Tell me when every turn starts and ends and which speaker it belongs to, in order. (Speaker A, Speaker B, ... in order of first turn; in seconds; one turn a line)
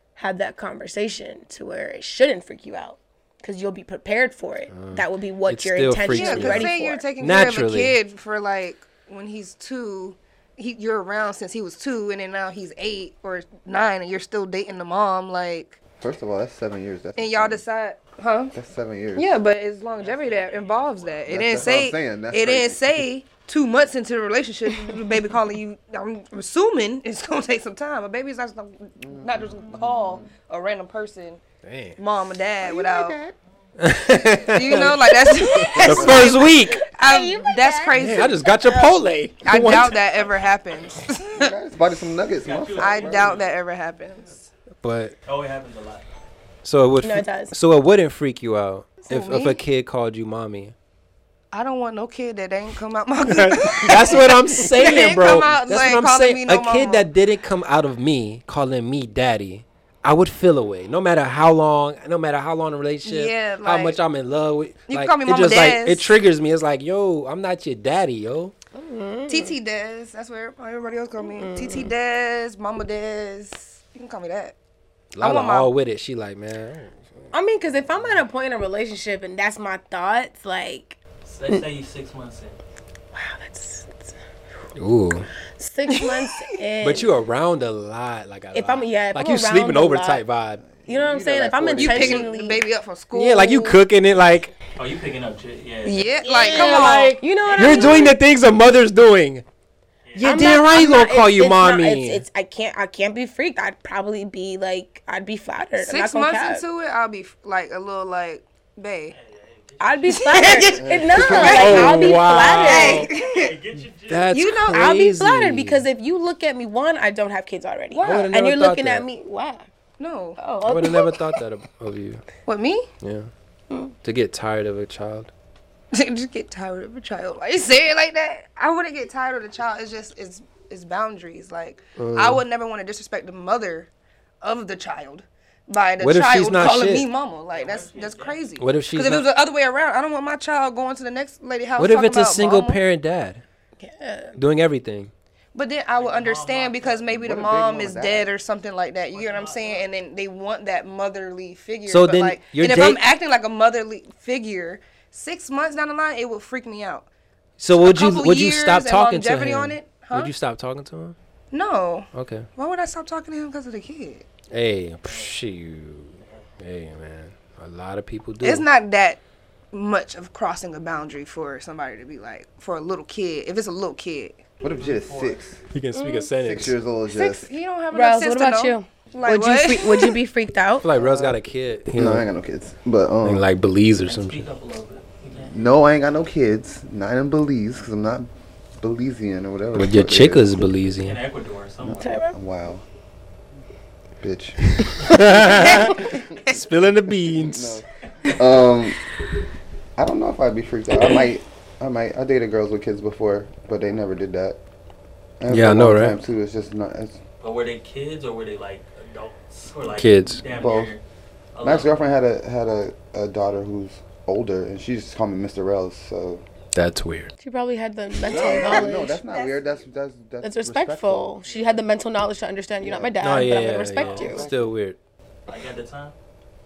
Speaker A: 0.1-7.1
Speaker B: 4.7-8.0
Speaker C: 6.1-15.8
Speaker D: 16.0-17.6
Speaker C: 17.1-18.5
Speaker D: 18.5-19.4
Speaker C: 19.1-31.4
Speaker E: 20.0-21.5
Speaker D: 21.3-23.1
Speaker D: 29.0-30.3
Speaker B: 31.6-32.0
Speaker C: 32.0-33.2
Speaker D: 32.6-33.3
Speaker B: 33.8-36.8
Speaker C: 34.1-38.5
Speaker A: 35.3-39.1
Speaker B: 37.9-40.0
Speaker C: 39.4-41.5
Speaker D: 41.2-43.4
Speaker E: 42.4-43.6
Speaker C: 42.8-44.4
Speaker E: 44.1-44.4
Speaker B: 44.8-45.1
Speaker E: 45.2-46.0
Speaker B: 46.6-50.7
Speaker A: 47.0-47.5
Speaker C: 49.0-49.6
Speaker C: 51.5-57.1
Speaker B: 53.2-68.5
Speaker C: 63.0-64.0
Speaker C: 64.9-66.1
Speaker A: 68.7-69.6
Speaker C: 69.3-74.5
Speaker A: 71.2-71.9
Speaker B: 75.1-77.3
Speaker C: 75.2-75.7
Speaker A: 77.3-81.0
Speaker E: 81.2-82.6
Speaker A: 83.1-84.1
Speaker B: 84.7-85.3
Speaker A: 85.6-87.1
Speaker C: 85.9-86.6
Speaker B: 86.8-90.6
Speaker A: 88.5-90.2
Speaker D: 90.6-92.3
Speaker A: 90.8-92.7
Speaker C: 91.7-93.8
Speaker B: 93.1-94.5
Speaker E: 94.8-96.5
Speaker C: 95.8-97.2
Speaker A: 96.2-98.2
Speaker B: 96.4-99.4
Speaker E: 97.4-98.1
Speaker E: 100.0-100.4
Speaker B: 100.1-102.2
Speaker A: 100.2-106.6
Speaker C: 105.8-109.1
Speaker E: 109.1-110.8
Speaker A: 109.8-113.1
Speaker C: 110.1-113.5
Speaker D: 110.7-111.9
Speaker B: 111.4-113.1
Speaker E: 113.0-114.3
Speaker B: 114.1-115.8
Speaker C: 114.3-114.8
Speaker A: 114.7-119.7
Speaker C: 117.9-118.3
Speaker B: 118.0-119.0
Speaker C: 120.0-120.4
Speaker A: 120.4-121.4
Speaker B: 120.7-122.2
Speaker C: 122.5-122.9
Speaker B: 123.0-123.3
Speaker B: 124.0-125.3
Speaker C: 125.9-133.9
Speaker B: 131.9-132.4
Speaker C: 134.4-142.8
Speaker B: 136.0-137.1
Speaker E: 137.5-138.5
Speaker B: 138.6-139.3
Speaker B: 141.8-143.4
Speaker A: 143.8-144.3
Speaker B: 144.3-145.1
Speaker C: 145.5-157.1
Speaker E: 145.9-147.2
Speaker D: 147.1-148.3
Speaker E: 149.1-149.9
Speaker B: 151.9-153.0
Speaker B: 157.6-161.2
Speaker C: 157.7-160.3
Speaker C: 161.5-164.2
Speaker B: 162.1-162.5
Speaker B: 164.5-168.7
Speaker E: 165.0-165.4
Speaker E: 166.2-166.5
Speaker C: 168.4-169.2
Speaker C: 169.7-174.4
Speaker D: 174.6-175.6
Speaker E: 174.6-175.6
Speaker B: 175.7-176.8
Speaker A: 175.9-176.3
Speaker D: 176.4-177.5
Speaker C: 177.1-180.2
Speaker A: 177.9-180.9
Speaker B: 180.8-182.2
Speaker D: 180.9-181.4
Speaker D: 181.9-183.5
Speaker B: 183.2-184.5
Speaker E: 184.1-185.6
Speaker D: 185.4-188.3
Speaker D: 188.8-190.6
Speaker B: 189.7-191.2
Speaker E: 191.0-192.1
Speaker D: 191.8-192.8
Speaker A: 191.9-192.3
Speaker D: 194.2-194.7
Speaker B: 194.8-197.8
Speaker C: 195.4-196.6
Speaker D: 197.3-199.0
Speaker D: 199.9-204.6
Speaker D: 205.4-207.2
Speaker B: 205.5-206.2
Speaker E: 207.4-211.0
Speaker B: 209.9-210.4
Speaker D: 210.5-210.9
Speaker E: 211.5-212.0
Speaker D: 211.6-216.4
Speaker B: 216.7-217.3
Speaker A: 217.4-219.3
Speaker D: 218.2-221.4
Speaker C: 218.3-219.8
Speaker A: 220.4-224.5
Speaker E: 221.4-221.9
Speaker D: 222.8-223.1
Speaker B: 223.2-225.0
Speaker E: 223.9-224.4
Speaker D: 224.1-224.7
Speaker E: 225.5-226.1